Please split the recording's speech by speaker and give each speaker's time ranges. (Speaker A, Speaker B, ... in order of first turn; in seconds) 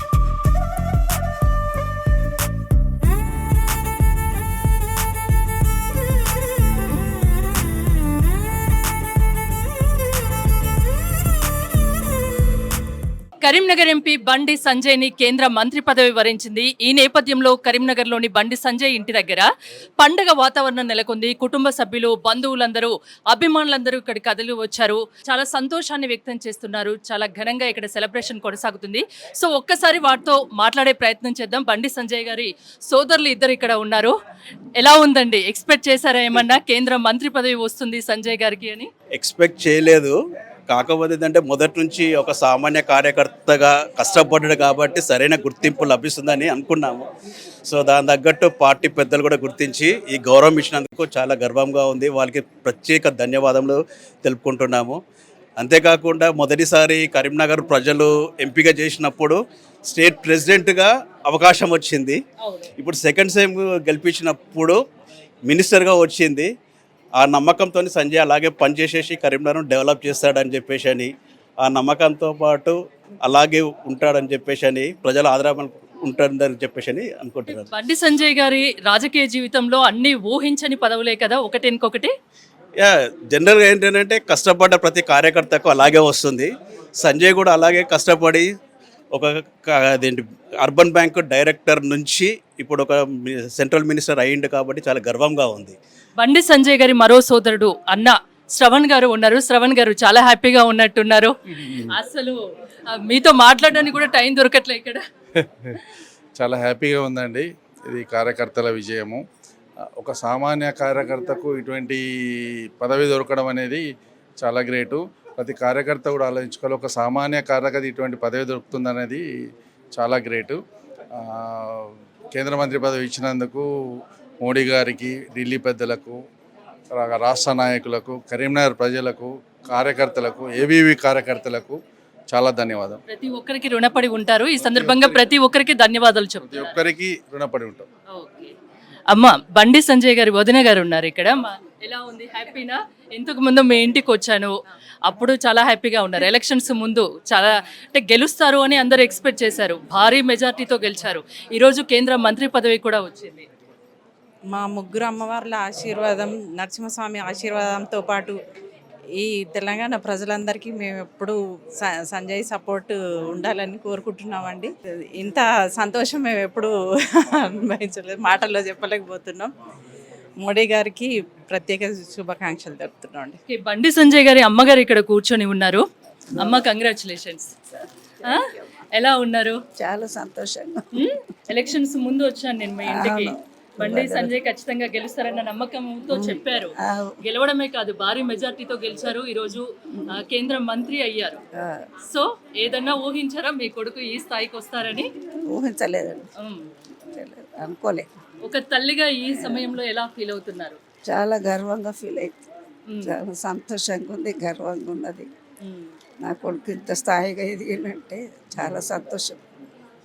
Speaker A: 13.4-19.5, 20.0-34.1, 34.8-38.9, 62.4-62.7, 77.5-82.1, 96.2-101.3, 101.9-105.0, 133.1-136.8, 138.1-138.5, 139.1-144.5, 145.1-153.5, 173.5-175.8, 176.4-177.5, 178.9-179.6, 180.9-191.4, 192.1-195.1, 198.4-200.8, 202.9-203.2, 205.6-205.9
Speaker B: 39.1-40.1, 40.7-47.1, 47.7-55.0, 55.6-62.2, 62.8-64.8, 65.5-66.5, 67.2-71.1, 71.6-77.7, 82.8-88.5, 89.1-95.8
Speaker C: 105.4-105.8, 106.4-109.2, 110.0-113.8, 114.4-119.2, 119.9-120.6, 121.2-123.7, 124.4-126.2, 127.0-131.8, 132.3-133.0, 134.6-135.3, 136.4-137.8
Speaker D: 154.5-158.4, 159.2-169.5, 170.4-173.4
Speaker E: 179.8-181.0, 182.9-184.2, 186.2-187.1, 195.5-196.2, 197.1-198.1, 201.1-202.4, 203.1-205.3, 206.2-209.4